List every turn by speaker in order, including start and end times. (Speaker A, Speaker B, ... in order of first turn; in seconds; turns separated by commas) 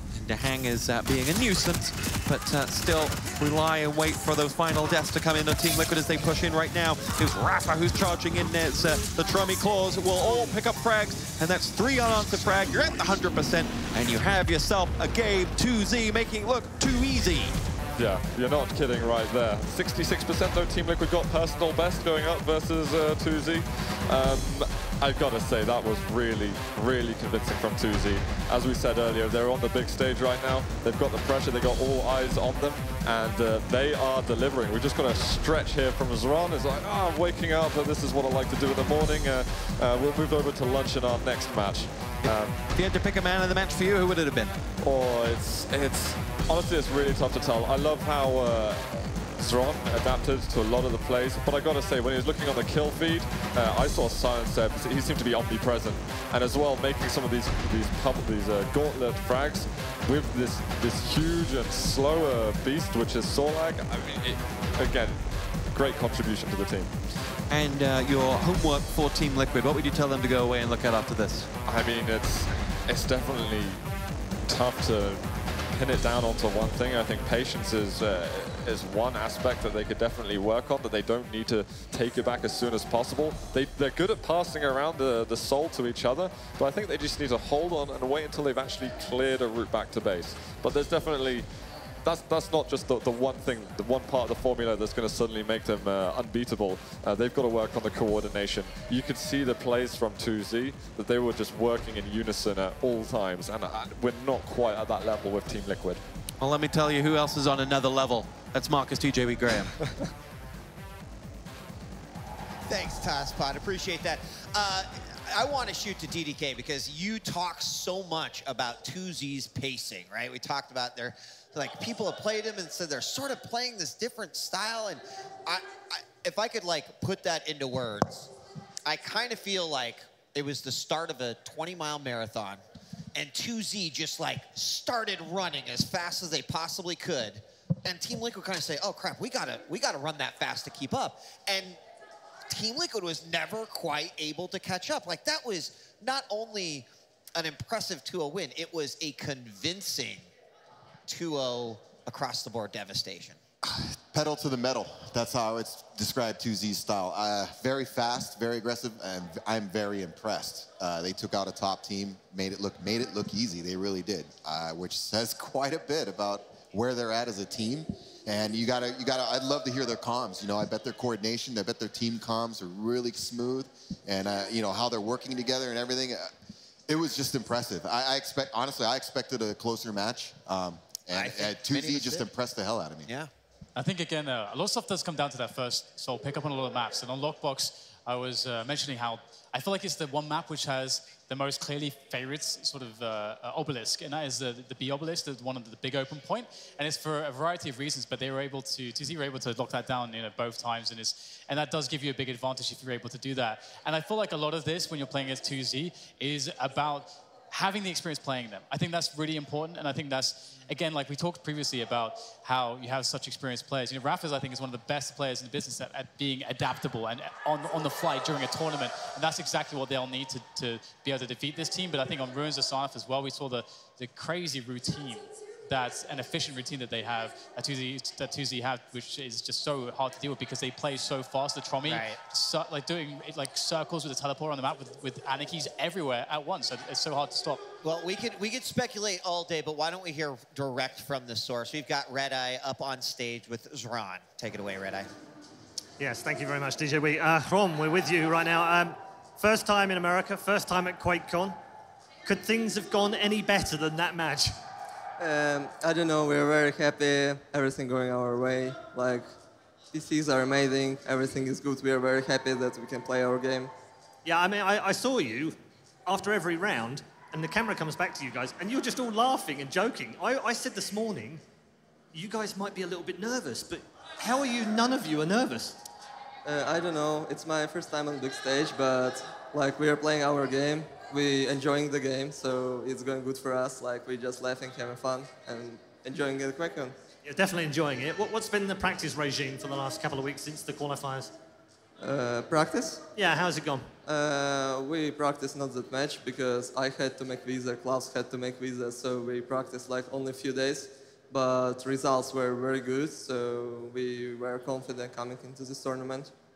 Speaker A: 0.1-17.6, Speaker B: 18.0-42.6, Speaker A: 42.2-44.6, Speaker B: 44.8-65.2, Speaker B: 65.7-66.9, Speaker A: 67.5-71.5, Speaker B: 71.7-73.8, Speaker B: 74.5-91.5, Speaker B: 92.0-106.0, Speaker A: 106.4-109.8, Speaker B: 109.8-110.1, Speaker C: 112.7-128.3, Speaker C: 128.8-132.6, Speaker C: 133.1-141.8, Speaker C: 142.5-150.2, Speaker C: 151.1-153.4, Speaker D: 153.6-176.3, Speaker D: 176.9-183.1, Speaker C: 181.1-182.3, Speaker E: 183.8-237.6, Speaker C: 231.8-232.2, Speaker C: 237.8-245.1, Speaker F: 246.0-251.6, Speaker F: 252.2-254.5, Speaker G: 255.2-259.2, Speaker G: 259.9-263.7, Speaker F: 264.2-271.4, Speaker F: 272.1-275.8, Speaker G: 276.4-286.9, Speaker F: 287.2-291.3, Speaker G: 292.0-293.0, Speaker F: 293.1-293.9, Speaker G: 294.1-306.3